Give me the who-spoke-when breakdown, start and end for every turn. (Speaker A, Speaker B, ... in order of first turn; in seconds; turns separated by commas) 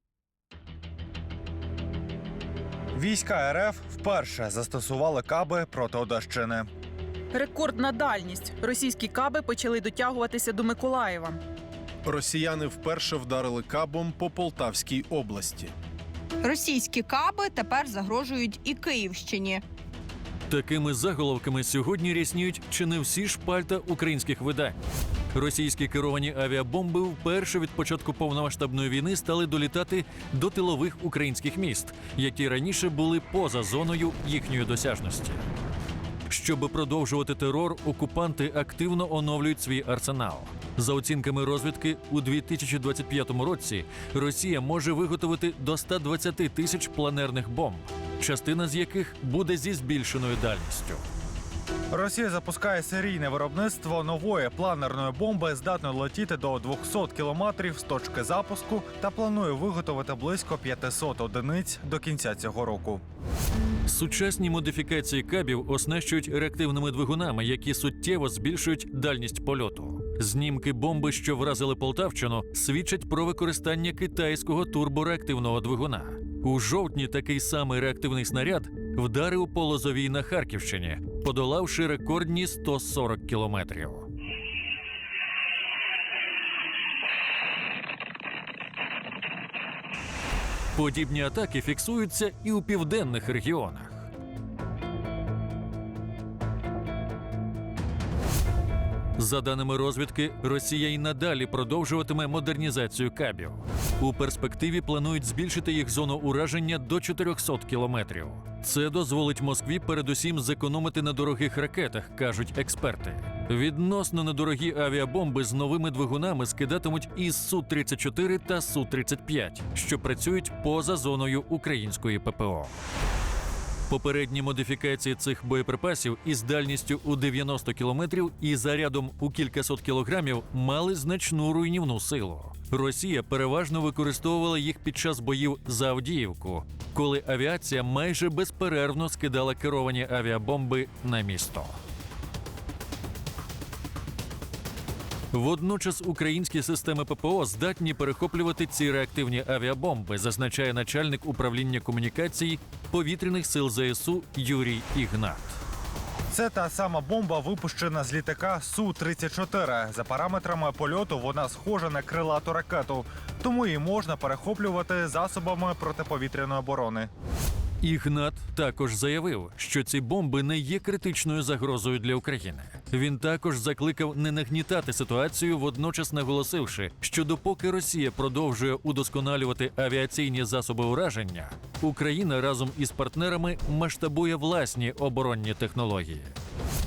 Speaker A: 3.0-6.7, Speaker B: 7.3-11.4, Speaker C: 12.1-15.7, Speaker D: 16.4-19.6, Speaker E: 20.5-24.8, Speaker E: 25.3-35.4, Speaker E: 36.3-51.0, Speaker A: 51.9-63.0, Speaker E: 63.9-84.1, Speaker E: 90.7-94.1, Speaker E: 99.2-122.8, Speaker E: 123.9-141.8, Speaker E: 145.3-155.6, Speaker A: 156.3-167.1, Speaker E: 167.8-186.3